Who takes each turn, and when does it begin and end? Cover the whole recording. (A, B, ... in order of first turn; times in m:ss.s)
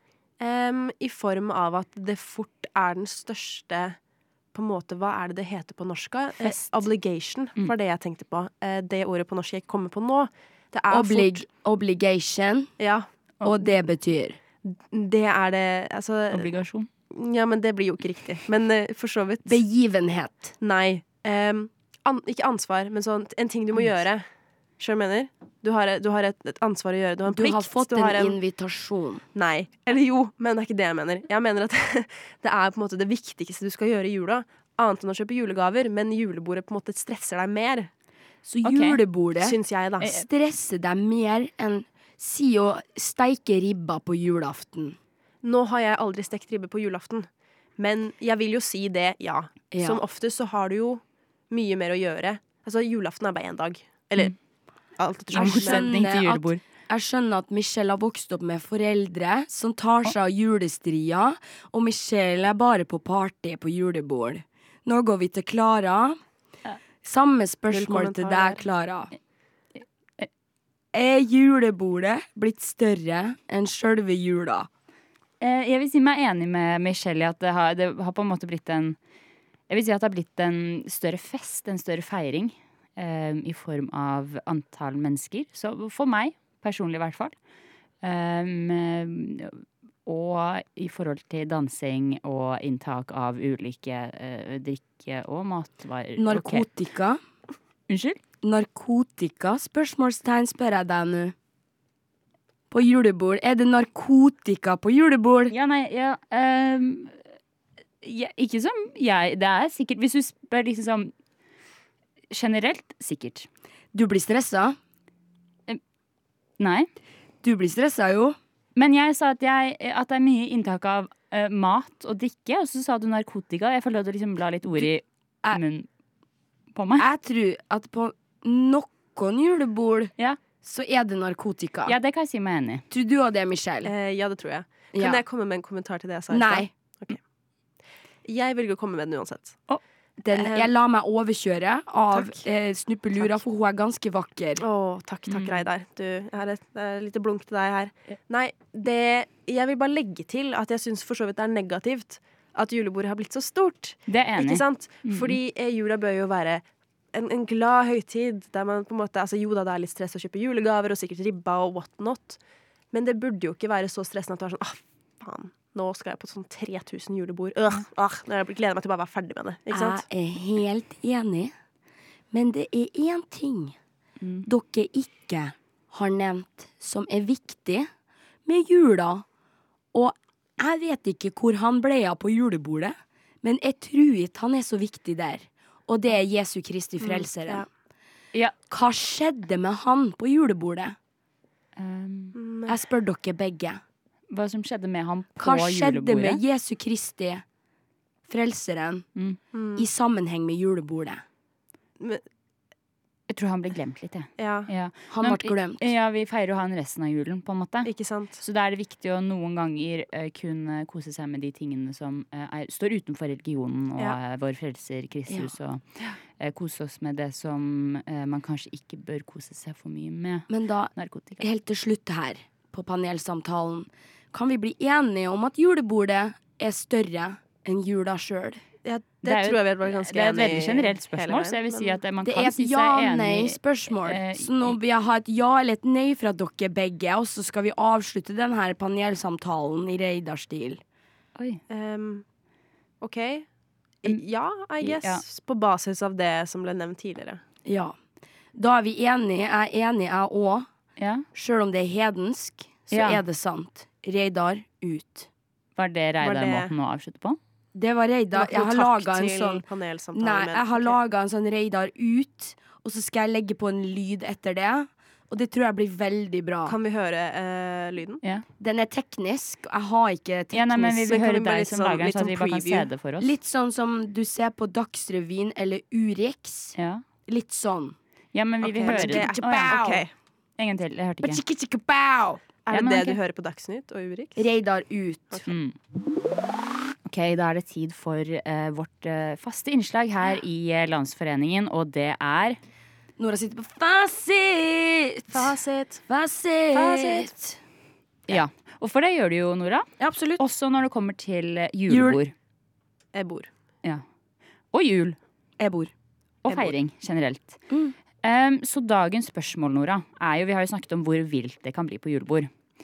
0:00.4-0:04.0 A
0:04.5-0:11.4 A
0:10.9-0:12.7 B
0:12.8-0:13.1 A
0:13.4-0:14.4 B
0:14.6-0:16.5 A
0:16.3-0:16.9 C
0:17.1-0:19.6 A
0:19.5-0:20.5 B
0:20.6-0:24.2 A
0:24.8-0:28.4 A
0:27.3-0:29.2 B
0:29.4-0:37.9 A
0:38.4-0:45.0 B
0:38.6-0:39.0 C
0:39.4-0:40.2 A
0:40.0-0:40.3 C
0:45.4-0:54.4 A
0:49.7-0:50.0 B
0:55.0-0:55.9 A
0:55.3-0:56.6 C
0:55.4-1:06.2 B
1:07.0-1:09.1 B
1:07.7-1:08.6 A
1:10.9-1:14.7 B
1:15.4-1:19.0 C
1:19.7-1:27.4 C
1:28.0-1:36.7 C
1:36.2-1:37.2 B
1:37.9-1:38.2 C
1:38.4-1:41.4 B
1:42.7-1:45.5 B
1:45.5-1:47.2 C
1:48.0-1:51.1 C
1:52.3-1:53.5 C
1:53.9-1:54.8 B
1:56.6-1:56.9 C
1:57.4-1:58.4 B
1:58.8-2:05.9 C
2:06.7-2:07.1 C
2:07.0-2:12.0 B
2:11.9-2:12.8 C
2:12.9-2:13.9 B
2:13.8-2:17.2 A
2:15.0-2:15.2 B
2:16.3-2:16.7 B
2:18.2-2:19.6 A
2:20.2-2:24.6 B
2:20.3-2:20.7 A
2:22.1-2:22.4 A
2:24.6-2:42.4 A
2:25.3-2:25.7 C
2:34.1-2:35.4 C
2:42.9-2:50.1 A
2:49.7-2:51.5 B
2:52.3-2:53.8 B
2:54.2-2:54.5 C
2:54.4-2:57.9 B
2:58.5-2:59.2 B
2:59.9-3:07.7 B
3:07.0-3:07.7 A
3:08.7-3:11.0 B
3:11.8-3:12.4 C
3:12.4-3:12.8 A
3:12.7-3:13.8 B
3:14.3-3:16.4 C
3:15.4-3:17.4 B
3:18.3-3:19.1 B
3:19.5-3:19.9 A
3:19.8-3:21.2 B
3:23.3-3:35.8 C
3:24.4-3:24.7 A
3:25.1-3:25.9 B
3:27.8-3:28.4 A
3:36.4-3:41.4 C
3:40.5-3:48.6 B
3:48.8-3:52.0 A
3:49.2-3:54.8 C
3:52.2-4:00.8 B
4:01.4-4:01.6 C
4:01.7-4:02.2 A
4:03.0-4:03.5 A
4:04.0-4:07.4 A
4:04.8-4:05.2 C
4:07.7-4:08.0 B
4:08.6-4:10.7 B
4:11.0-4:11.2 C
4:11.3-4:15.3 B
4:12.9-4:13.2 C
4:15.8-4:17.4 C
4:16.2-4:16.7 A
4:17.8-4:19.6 B
4:18.3-4:21.0 A
4:20.2-4:26.8 B
4:26.7-4:28.2 A
4:28.6-4:31.2 B
4:30.5-4:33.3 C
4:31.1-4:32.9 A
4:33.2-4:36.8 B
4:36.8-4:37.0 C
4:37.3-4:38.0 B
4:38.3-4:39.9 C
4:38.6-4:40.1 A
4:38.8-4:40.0 B
4:40.6-4:41.4 C
4:41.2-4:42.4 B
4:42.7-4:44.4 A
4:42.7-4:43.2 C
4:44.4-4:45.4 B
4:45.5-4:45.8 C
4:47.0-4:52.6 C
4:53.2-4:55.5 B
4:55.3-4:56.0 A
4:56.1-4:57.6 B
4:56.7-4:57.4 A
4:58.3-5:02.3 C
5:00.0-5:00.4 B
5:01.9-5:02.2 B
5:03.1-5:03.5 A
5:04.7-5:05.2 C
5:05.6-5:05.9 B
5:06.4-5:07.6 C
5:07.7-5:08.0 B
5:08.2-5:12.5 C